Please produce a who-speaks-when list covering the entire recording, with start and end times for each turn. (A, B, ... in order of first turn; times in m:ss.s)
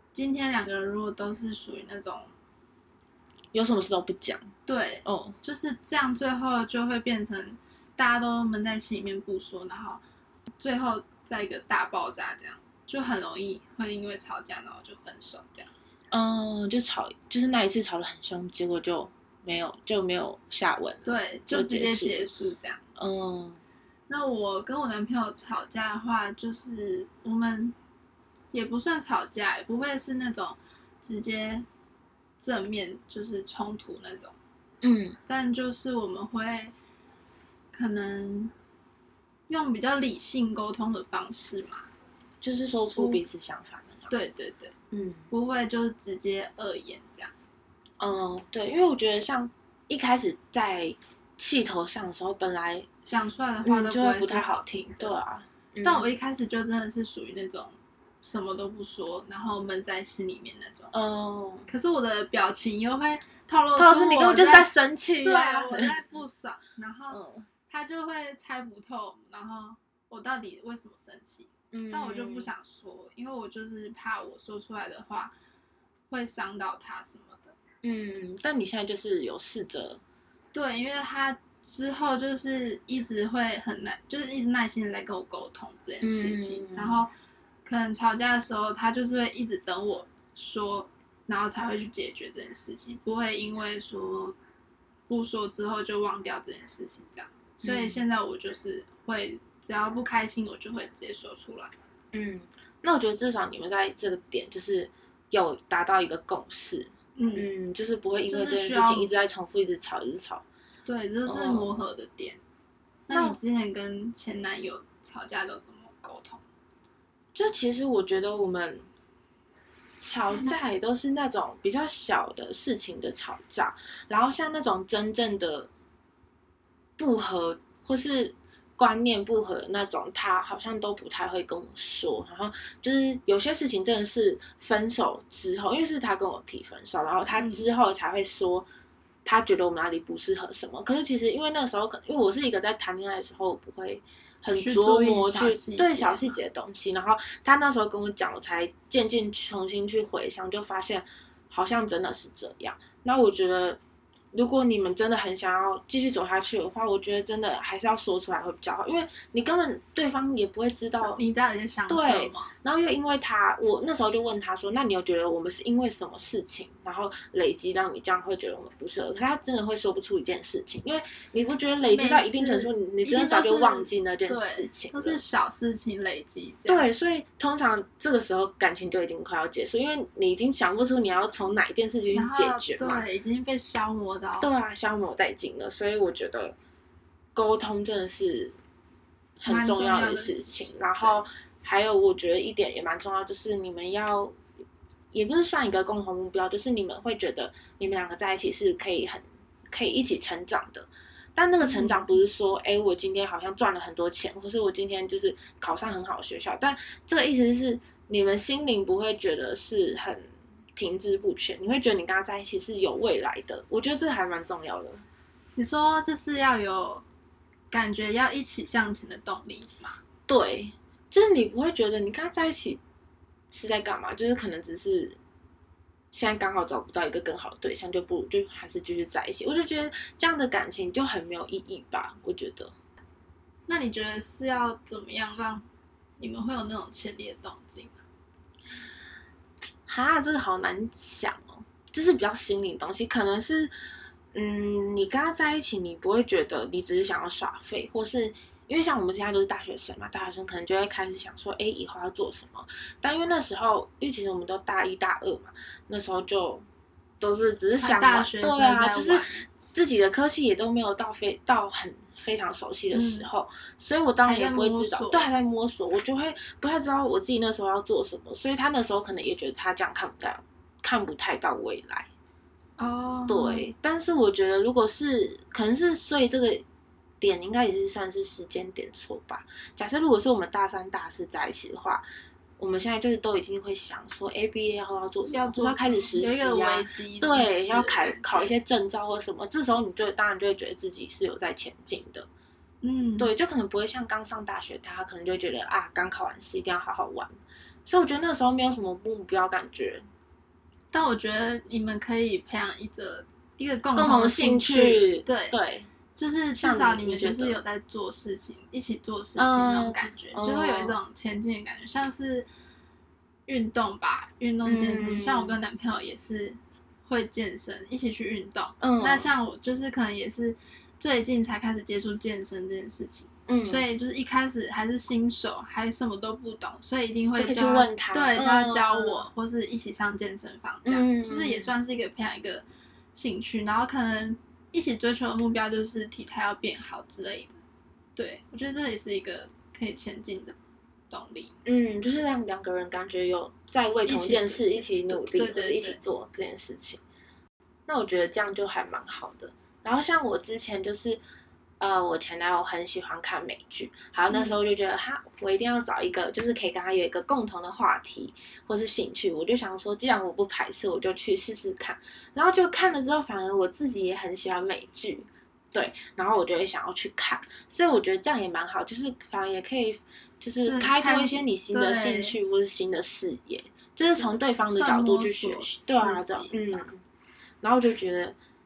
0:00.1-0:02.3 A
0:03.5-0:04.4 B
0:04.7-0:10.0 A
0:05.0-0:05.4 B
0:10.6-0:15.7 A
0:16.1-0:22.3 B
0:21.0-0:22.8 A
0:23.0-0:23.6 B
0:24.1-0:27.7 A
0:28.5-0:31.7 A
0:32.4-0:34.3 A
0:34.8-0:35.2 B
0:35.3-0:36.7 A
0:37.7-0:38.5 A
0:39.5-0:41.9 A
0:42.4-0:44.1 B
0:43.0-0:43.2 A
0:44.1-0:44.7 A
0:44.9-0:45.2 B
0:45.3-0:47.3 A
0:48.0-0:52.9 B
0:53.1-0:55.1 A
0:53.6-0:56.0 B
0:55.8-1:00.9 A
1:00.9-1:01.7 B
1:01.7-1:04.7 A
1:03.8-1:05.9 B
1:05.2-1:15.3 A
1:07.1-1:07.5 B
1:11.7-1:12.5 B
1:16.1-1:17.5 A
1:17.8-1:20.0 B
1:20.5-1:27.1 A
1:26.0-1:27.1 B
1:27.6-1:34.4 A
1:35.1-1:41.7 A
1:37.6-1:38.0 B
1:42.1-1:50.4 B
1:47.2-1:47.5 A
1:48.2-1:49.1 A
1:50.8-1:52.4 A
1:51.2-1:51.8 B
1:53.1-1:56.4 A
1:53.1-1:53.4 B
1:57.3-1:58.9 B
2:00.0-2:05.7 B
2:07.0-2:18.7 B
2:17.4-2:17.7 A
2:19.2-2:33.8 B
2:24.5-2:26.3 A
2:34.3-2:41.2 B
2:41.0-2:42.5 A
2:41.9-2:55.2 B
2:51.8-2:56.8 A
2:56.7-3:03.0 B
3:02.1-3:04.5 A
3:04.4-3:06.5 B
3:07.3-3:08.6 B
3:09.4-3:14.4 B
3:09.5-3:11.2 A
3:15.1-3:35.0 B
3:21.6-3:22.2 A
3:35.6-3:37.0 A
3:37.7-3:40.0 A
3:40.3-3:42.8 B
3:43.5-3:45.2 B
3:46.1-3:52.7 B
3:53.7-3:55.7 A
3:56.2-3:58.0 A
3:59.8-4:03.7 B
4:04.3-4:16.6 B
4:17.2-4:32.1 B
4:17.8-4:19.5 A
4:22.9-4:23.3 A
4:24.2-4:25.3 A
4:32.8-4:33.7 A
4:33.3-4:36.6 B
4:37.2-4:42.0 B
4:42.6-4:52.3 B
4:45.3-4:48.6 A
4:52.8-4:53.3 A
4:53.2-4:57.4 B
4:57.9-5:00.0 B
5:00.9-5:05.6 A
5:04.0-5:05.9 B
5:06.2-5:12.5 A
5:06.6-5:07.6 B
5:09.4-5:11.0 B
5:13.5-5:37.6 A
5:14.6-5:15.6 B
5:18.8-5:19.3 B
5:23.5-5:23.9 B
5:27.4-5:29.3 B
5:30.8-5:31.7 B
5:38.2-5:40.6 A
5:41.1-5:41.5 A
5:41.6-5:47.0 B
5:44.1-5:46.0 A
5:47.9-5:51.2 B
5:51.8-6:17.0 B
5:54.3-5:54.6 A
6:10.6-6:12.4 A
6:14.2-6:16.8 A
6:17.6-6:18.4 B